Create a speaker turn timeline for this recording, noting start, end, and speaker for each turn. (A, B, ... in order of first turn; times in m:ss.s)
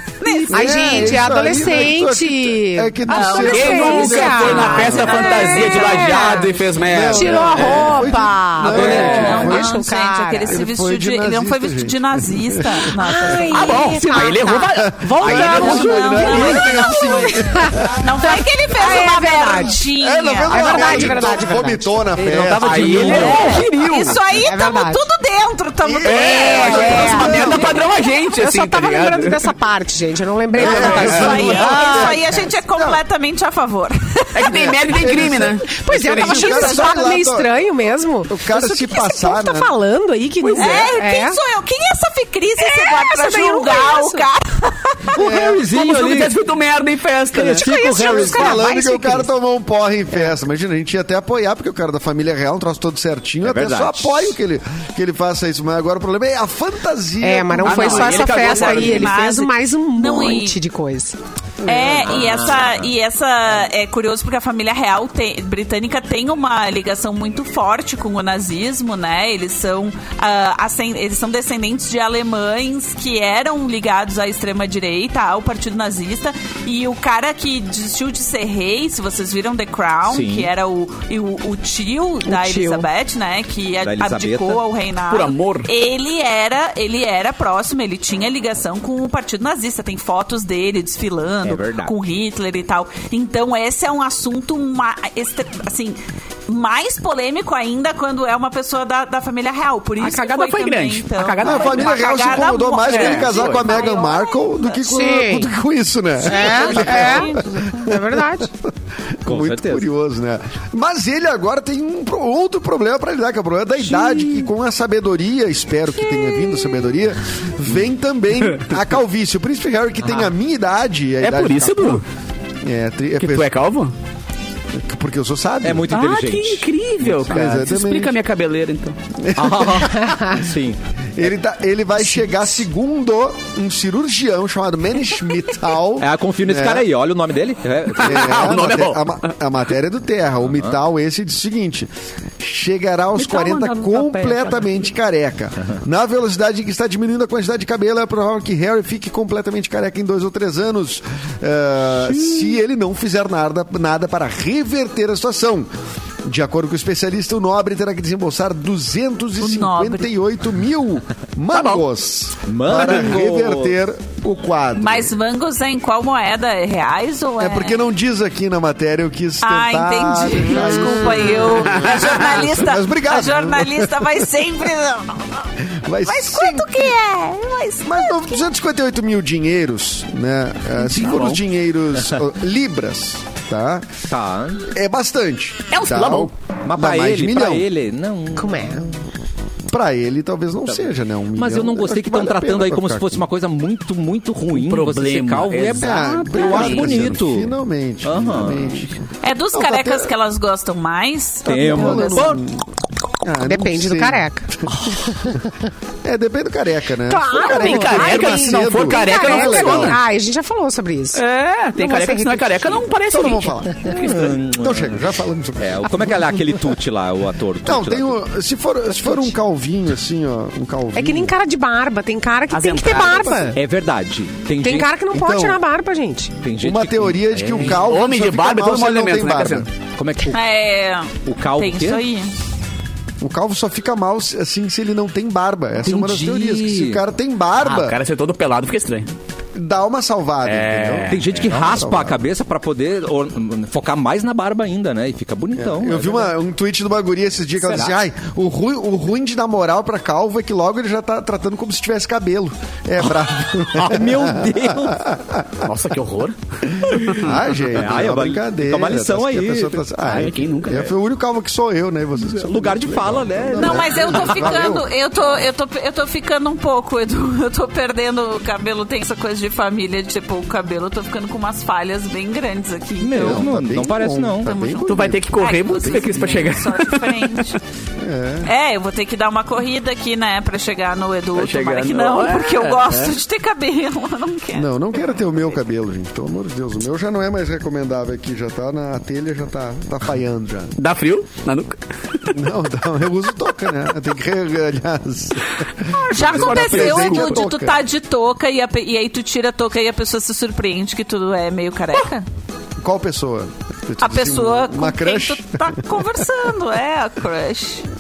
0:00.2-0:01.1 A
0:00.3-0:05.3 B
0:00.5-0:10.6 C
0:03.1-0:06.4 A
0:03.3-0:08.1 D
0:06.8-0:09.8 B
0:08.6-0:09.5 D
0:08.7-0:14.2 A
0:08.7-0:09.4 E
0:10.5-0:13.4 B
0:13.0-0:19.8 C
0:13.5-0:16.5 D
0:14.6-0:18.1 B
0:15.2-0:21.0 A
0:20.0-0:23.4 B
0:20.5-0:21.9 C
0:22.2-0:23.7 E
0:22.6-0:24.2 D
0:23.1-0:27.9 A
0:24.3-0:25.0 C
0:25.8-0:27.9 B
0:26.0-0:29.4 D
0:26.1-0:27.7 C
0:28.3-0:32.4 C
0:30.5-0:31.7 D
0:30.5-0:33.0 B
0:30.7-0:34.7 A
0:34.3-0:35.7 D
0:34.5-0:37.5 B
0:35.7-0:41.4 C
0:36.2-0:37.0 A
0:38.3-0:39.7 B
0:40.4-0:40.9 D
0:40.6-0:45.0 A
0:42.6-0:44.3 C
0:45.1-0:46.4 E
0:45.1-0:45.7 B
0:45.3-0:47.7 D
0:47.3-0:48.7 E
0:47.6-0:49.3 C
0:47.9-0:58.3 B
0:53.4-0:54.3 E
0:57.2-1:01.2 C
0:57.6-0:59.2 D
0:58.1-1:00.6 A
1:01.6-1:02.5 B
1:01.6-1:44.9 A
1:02.0-1:02.9 E
1:20.1-1:20.5 E
1:22.5-1:22.8 C
1:23.8-1:24.6 E
1:25.1-1:25.7 D
1:31.4-1:31.9 E
1:40.0-1:42.1 D
1:41.4-1:48.7 B
1:42.9-1:43.7 D
1:44.9-1:45.5 C
1:46.2-1:47.3 C
1:46.3-1:47.9 A
1:46.5-1:47.2 E
1:47.8-1:48.5 C
1:49.2-2:02.0 B
1:49.3-1:49.9 E
1:53.9-1:54.4 D
2:01.2-2:02.0 D
2:02.6-2:03.6 B
2:03.2-2:03.9 D
2:04.7-2:06.0 B
2:05.6-2:07.4 E
2:05.9-2:09.0 D
2:07.3-2:08.2 B
2:09.2-2:10.4 B
2:09.4-2:10.8 E
2:11.2-2:16.9 B
2:16.0-2:18.6 E
2:17.9-2:19.2 D
2:18.0-2:35.7 B
2:20.5-2:20.8 E
2:23.2-2:24.7 D
2:36.2-2:45.1 B
2:39.4-2:40.1 A
2:41.5-2:41.8 D
2:42.5-2:43.8 E
2:44.8-2:47.8 A
2:47.4-2:54.3 B
2:49.4-2:55.5 A
2:51.7-2:52.0 D
2:55.7-2:56.9 B
2:56.1-2:58.5 A
2:57.8-3:03.9 B
3:00.9-3:01.4 D
3:04.1-3:04.6 E
3:04.7-3:07.7 B
3:05.7-3:06.3 D
3:06.6-3:08.8 E
3:08.4-3:08.9 C
3:09.7-3:13.3 B
3:11.4-3:17.5 E
3:14.5-3:17.1 D
3:15.7-3:19.0 B
3:18.0-3:18.9 E
3:19.2-3:22.3 A
3:19.5-3:20.1 B
3:21.5-3:22.4 E
3:21.5-3:22.6 B
3:23.2-3:25.4 B
3:23.4-3:24.5 C
3:26.0-3:30.0 B
3:27.1-3:31.2 C
3:27.4-3:30.0 D
3:31.1-3:34.2 D
3:31.8-3:32.8 C
3:33.1-3:36.7 B
3:33.9-3:35.0 E
3:35.6-3:38.2 E
3:37.6-3:41.3 B
3:40.9-3:43.6 C
3:42.5-3:43.5 D
3:43.1-3:43.5 B
3:43.5-3:45.0 E
3:44.6-3:46.3 C
3:45.1-3:45.6 B
3:46.4-3:47.9 E
3:46.6-3:49.7 B
3:47.6-3:49.7 D
3:49.9-3:50.4 E
3:50.3-3:52.3 A
3:51.2-3:52.0 E
3:53.2-3:58.0 B
3:55.8-3:57.0 E
3:57.6-3:59.1 D
3:59.6-4:02.2 B
4:00.4-4:01.6 D
4:01.1-4:06.3 E
4:05.6-4:15.7 B
4:13.7-4:15.1 E
4:15.6-4:16.4 D
4:17.0-4:19.9 E
4:17.0-4:17.3 D
4:17.2-4:24.9 B
4:20.0-4:20.9 D
4:22.2-4:24.8 E
4:23.6-4:33.5 A
4:33.0-4:34.7 E
4:33.2-4:36.6 B
4:34.6-4:37.6 A
4:34.8-4:37.4 D
4:38.0-4:38.5 B
4:38.4-4:44.8 A
4:41.4-4:43.1 D
4:44.5-4:50.7 B
4:50.8-4:52.4 D
4:52.3-4:57.8 B
4:56.0-4:57.4 D
4:56.1-5:02.3 A
5:02.8-5:05.8 B
5:04.0-5:07.9 A